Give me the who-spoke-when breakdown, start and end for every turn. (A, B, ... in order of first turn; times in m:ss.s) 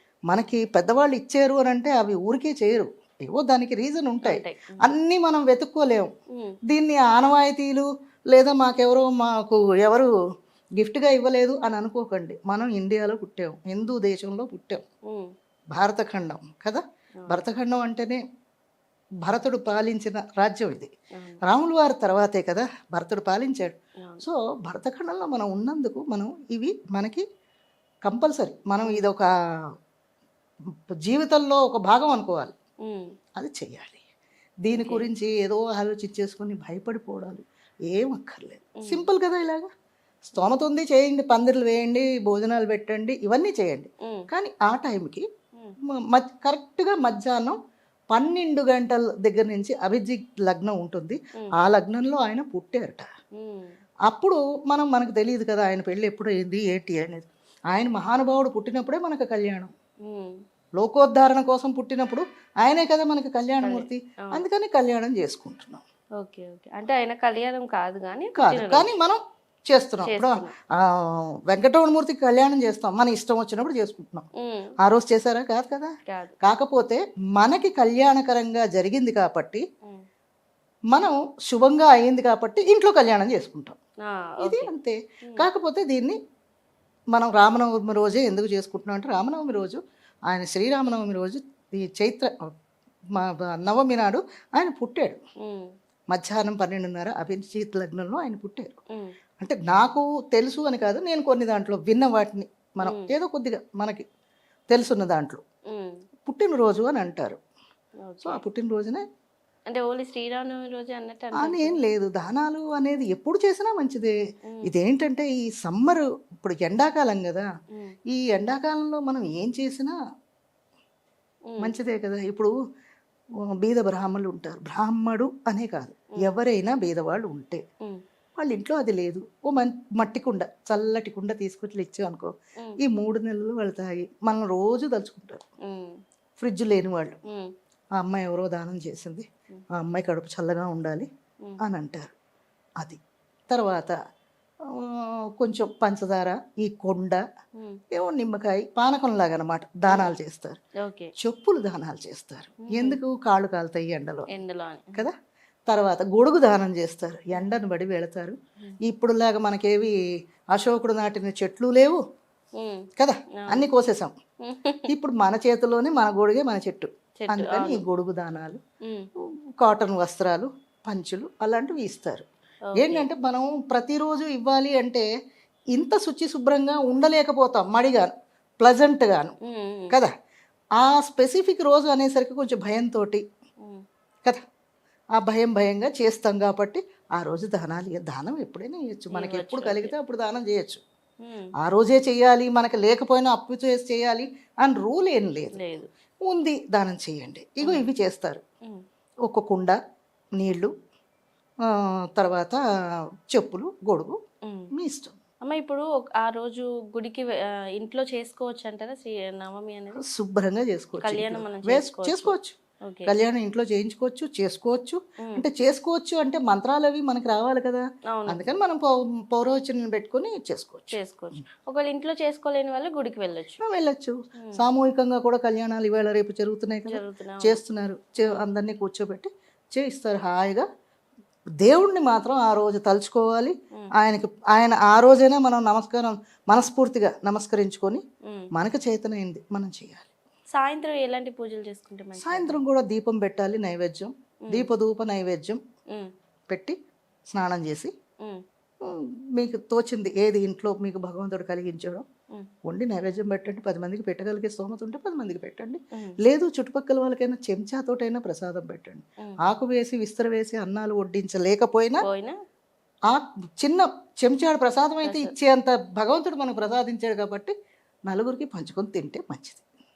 0:00.3-0:06.1 A
0:04.2-0:04.8 B
0:06.7-0:10.1 A
0:10.8-0:14.8 A
0:15.7-0:18.2 A
0:19.2-0:20.9 A
0:21.4-0:27.2 A
0:28.0-0:29.3 A
0:31.0-0:32.5 A
0:33.4-0:34.0 A
0:34.6-0:39.7 A
0:34.7-0:35.1 B
0:38.8-0:39.0 B
0:40.3-0:45.2 A
0:45.9-0:47.6 A
0:48.1-0:53.1 A
0:53.4-0:53.7 B
0:54.1-0:59.7 A
1:00.1-1:00.4 B
1:00.8-1:05.8 A
1:03.6-1:04.4 B
1:06.2-1:08.9 B
1:08.4-1:14.2 A
1:10.0-1:10.5 B
1:14.4-1:14.7 B
1:14.8-1:15.9 A
1:16.1-1:16.4 B
1:16.4-1:19.6 A
1:20.9-1:23.8 A
1:24.0-1:24.7 B
1:24.4-1:26.2 A
1:27.1-1:32.3 A
1:33.2-1:35.2 A
1:36.1-1:38.8 A
1:39.4-1:44.0 A
1:42.8-1:43.1 B
1:44.7-1:45.4 A
1:46.2-1:47.4 A
1:48.0-1:48.4 B
1:48.2-1:49.0 A
1:49.7-1:51.8 B
1:51.4-1:57.5 A
1:58.1-1:59.9 A
2:01.5-2:01.7 B
2:01.6-2:02.5 A
2:03.6-2:07.6 A
2:08.4-2:15.4 A
2:15.6-2:15.9 B
2:16.4-2:17.2 A
2:18.0-2:21.1 A
2:21.6-2:22.1 A
2:22.8-2:23.9 A
2:24.7-2:27.2 A
2:27.9-2:30.6 A
2:29.9-2:30.1 B
2:30.8-2:31.1 B
2:31.2-2:34.3 A
2:32.7-2:33.0 B
2:34.3-2:35.0 B
2:35.7-2:39.9 A
2:40.5-2:42.0 A
2:42.6-2:42.8 B
2:43.0-2:44.1 A
2:43.4-2:43.6 B
2:44.4-2:44.9 B
2:44.9-2:48.6 A
2:47.2-2:47.8 B
2:49.6-2:52.2 A
2:52.7-2:53.1 B
2:52.8-2:55.0 A
2:55.7-2:59.3 A
2:59.4-2:59.9 B
3:00.8-3:03.2 A
3:05.2-3:10.8 A
3:09.1-3:09.9 B
3:11.2-3:11.5 B
3:11.6-3:15.6 A
3:15.5-3:15.9 B
3:16.2-3:18.4 A
3:19.3-3:19.8 A
3:20.4-3:20.7 A
3:21.7-3:22.6 A
3:23.3-3:24.2 A
3:24.7-3:25.1 A
3:25.4-3:30.0 B
3:29.9-3:41.0 A
3:31.0-3:33.1 B
3:38.1-3:38.5 B
3:40.9-3:43.6 B
3:43.6-3:50.6 A
3:44.4-3:44.6 B
3:46.9-3:47.6 B
3:51.6-3:58.0 A
3:58.5-4:00.1 A
4:00.6-4:02.6 B
4:02.2-4:05.6 A
4:06.5-4:06.7 A
4:07.3-4:07.9 A
4:08.8-4:12.0 A
4:12.6-4:22.0 A
4:22.0-4:22.3 B
4:23.1-4:27.5 A
4:25.0-4:25.3 B
4:28.1-4:29.6 A